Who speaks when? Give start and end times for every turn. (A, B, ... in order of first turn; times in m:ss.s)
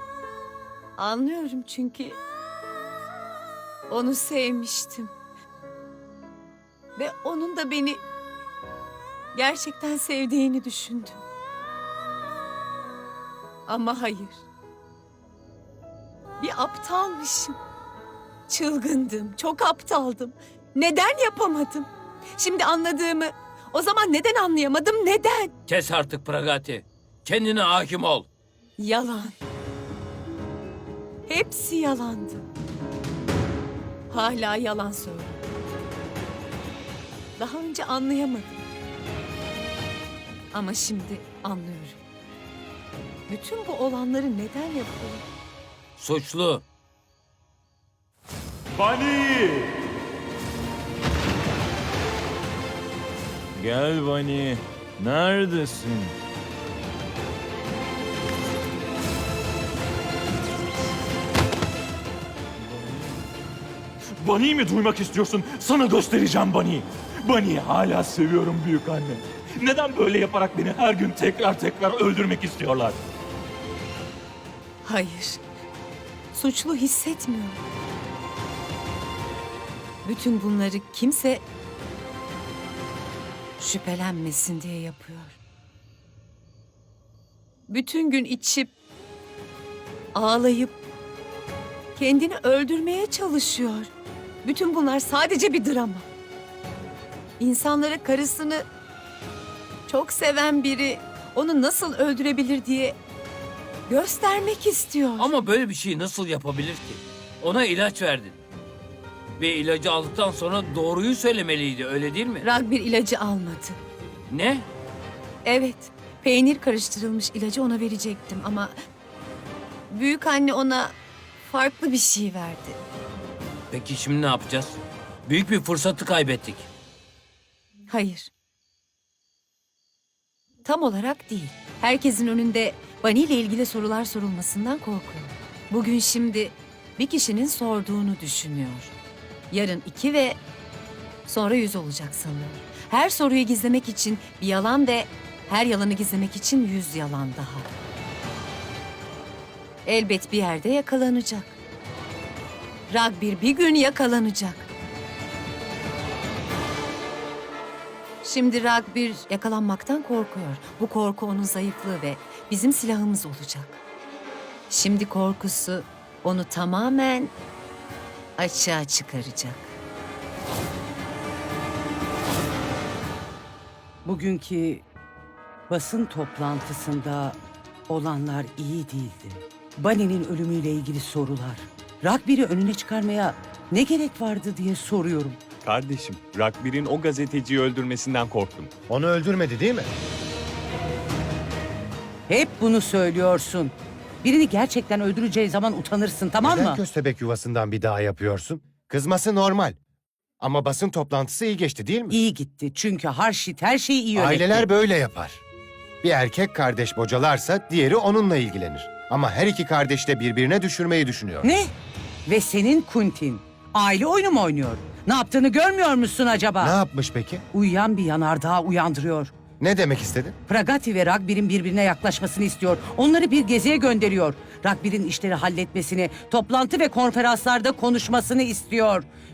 0:01.0-0:02.2 A
0:03.9-0:05.1 A
0:07.0-0:08.0 A
0:09.3-0:11.2 A
0:13.7-0:14.5 A
0:16.4-0:17.6 A
0:18.5-0:25.5 A
0:25.7-0:28.3 B
0:28.8-0:29.4 A
0:31.3-0:32.4 A
0:34.1-0:35.4 A
0:37.4-0:38.6 A
0:40.5-0:42.0 A
0:43.3-0:45.2 A
0:46.0-0:46.6 B
0:48.8-0:49.7 C
0:53.6-0:56.2 C
1:02.6-1:03.0 C
1:04.2-1:13.0 C
1:14.8-1:15.4 A
1:16.3-1:17.6 A
1:20.0-1:21.4 A
1:23.6-1:25.4 A
1:27.7-1:28.7 A
1:30.1-1:30.8 A
1:32.0-1:33.9 A
1:34.4-1:36.1 A
1:37.4-1:38.6 A
1:39.9-1:43.0 A
1:43.9-1:45.3 A
1:45.2-1:48.4 B
1:49.4-1:52.5 B
1:52.4-1:53.8 A
1:54.3-1:54.7 B
1:55.4-1:58.7 A
1:59.9-2:02.8 A
2:03.7-2:06.7 B
2:07.9-2:08.3 A
2:10.6-2:18.9 A
2:19.5-2:20.4 A
2:21.3-2:27.7 A
2:29.8-2:31.6 A
2:32.9-2:34.7 A
2:38.2-2:43.8 A
2:44.7-2:47.4 A
2:48.4-2:49.8 A
2:54.0-2:54.9 D
2:55.7-2:57.4 D
2:57.9-3:05.4 D
3:05.6-3:08.7 E
3:08.9-3:09.9 F
3:12.3-3:16.8 D
3:16.4-3:19.8 F
3:20.4-3:22.2 F
3:22.1-3:24.7 D
3:24.2-3:25.4 F
3:26.0-3:31.5 F
3:31.4-3:31.7 D
3:32.3-3:36.8 D
3:36.6-3:37.4 F
3:37.5-3:39.3 D
3:39.6-3:40.4 F
3:40.5-3:49.1 D